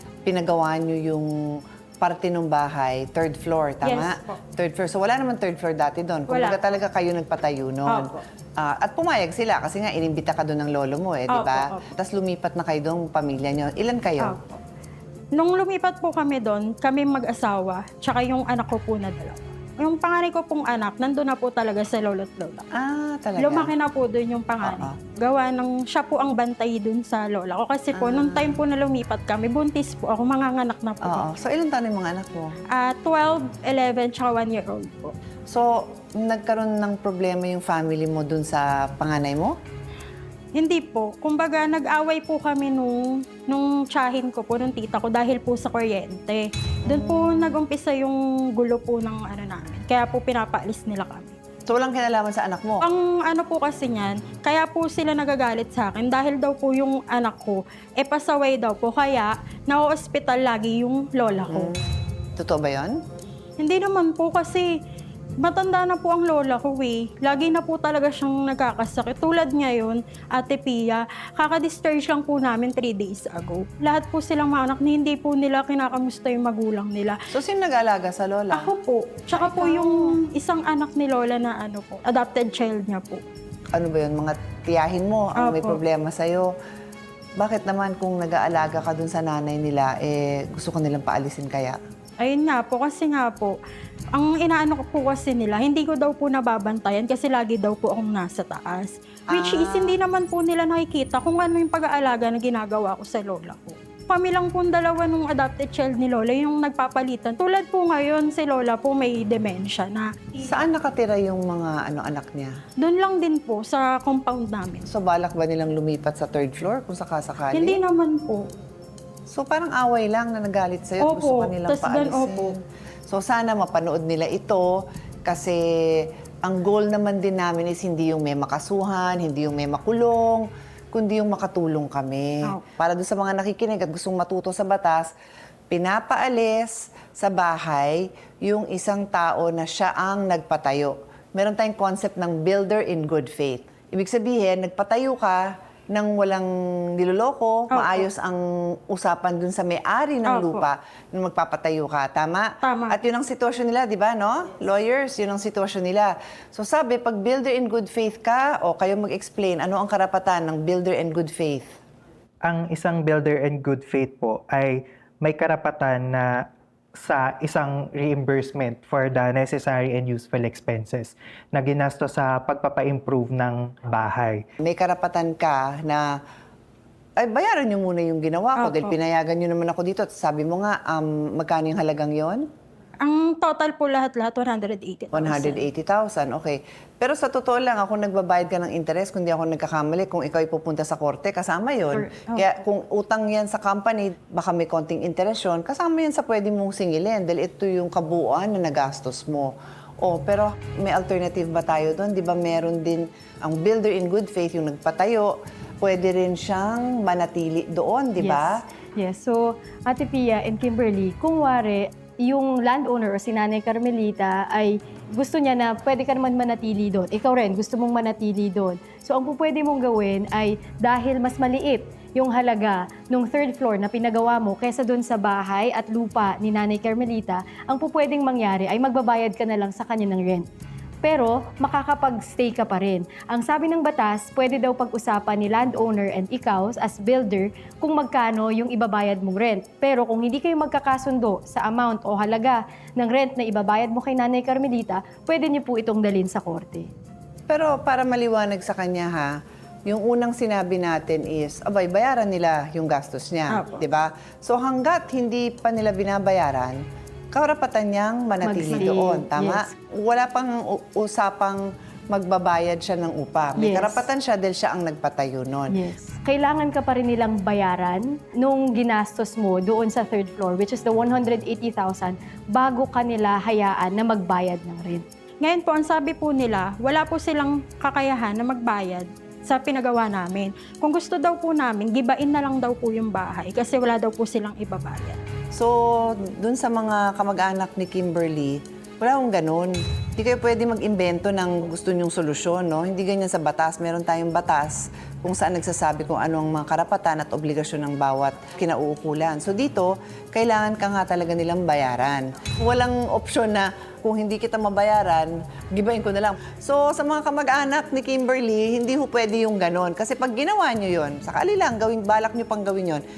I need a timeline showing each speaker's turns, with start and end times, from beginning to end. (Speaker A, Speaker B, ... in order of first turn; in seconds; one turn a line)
Speaker A: 0.3-14.4
Speaker B: 3.8-4.4
Speaker B: 6.3-6.6
Speaker B: 7.9-8.2
Speaker B: 11.3-11.8
Speaker B: 14.2-14.6
Speaker B: 15.4-22.6
Speaker A: 22.7-23.7
Speaker B: 23.4-31.3
Speaker A: 24.6-25.0
Speaker A: 27.9-28.6
Speaker A: 31.0-32.5
Speaker B: 32.7-35.1
Speaker A: 35.5-39.5
Speaker B: 40.5-51.4
Speaker A: 46.9-47.5
Speaker A: 51.7-52.8
Speaker B: 52.8-61.7
Speaker A: 61.5-61.8
Speaker A: 62.4-63.0
Speaker B: 63.6-64.7
Speaker B: 65.4-77.2
Speaker A: 77.3-78.7
Speaker B: 78.5-83.2
Speaker A: 79.3-80.2
Speaker A: 83.7-86.5
Speaker B: 85.4-85.8
Speaker A: 87.4-91.8
Speaker B: 92.2-93.5
Speaker B: 94.1-110.4
Speaker A: 99.3-100.0
Speaker A: 110.4-112.5
Speaker B: 112.8-114.9
Speaker A: 114.9-117.8
Speaker B: 117.5-118.5
Speaker A: 119.3-135.1
Speaker B: 121.0-122.5
Speaker A: 135.7-161.7
Speaker B: 147.7-148.1
Speaker B: 150.3-150.7
Speaker B: 152.6-153.0
Speaker C: 162.4-166.4
Speaker C: 167.0-174.4
Speaker A: 174.6-176.1
Speaker A: 177.2-182.4
Speaker B: 178.6-178.9
Speaker B: 183.0-185.7
Speaker A: 185.1-208.6
Speaker B: 191.9-192.5
Speaker D: 208.2-230.5
Speaker D: 231.0-246.9
Speaker A: 247.5-249.3
Speaker A: 249.9-256.8
Speaker B: 253.5-253.8
Speaker A: 257.3-265.8
Speaker D: 258.4-259.7
Speaker D: 263.6-264.0
Speaker D: 265.7-275.0
Speaker B: 275.4-285.2
Speaker A: 285.5-313.0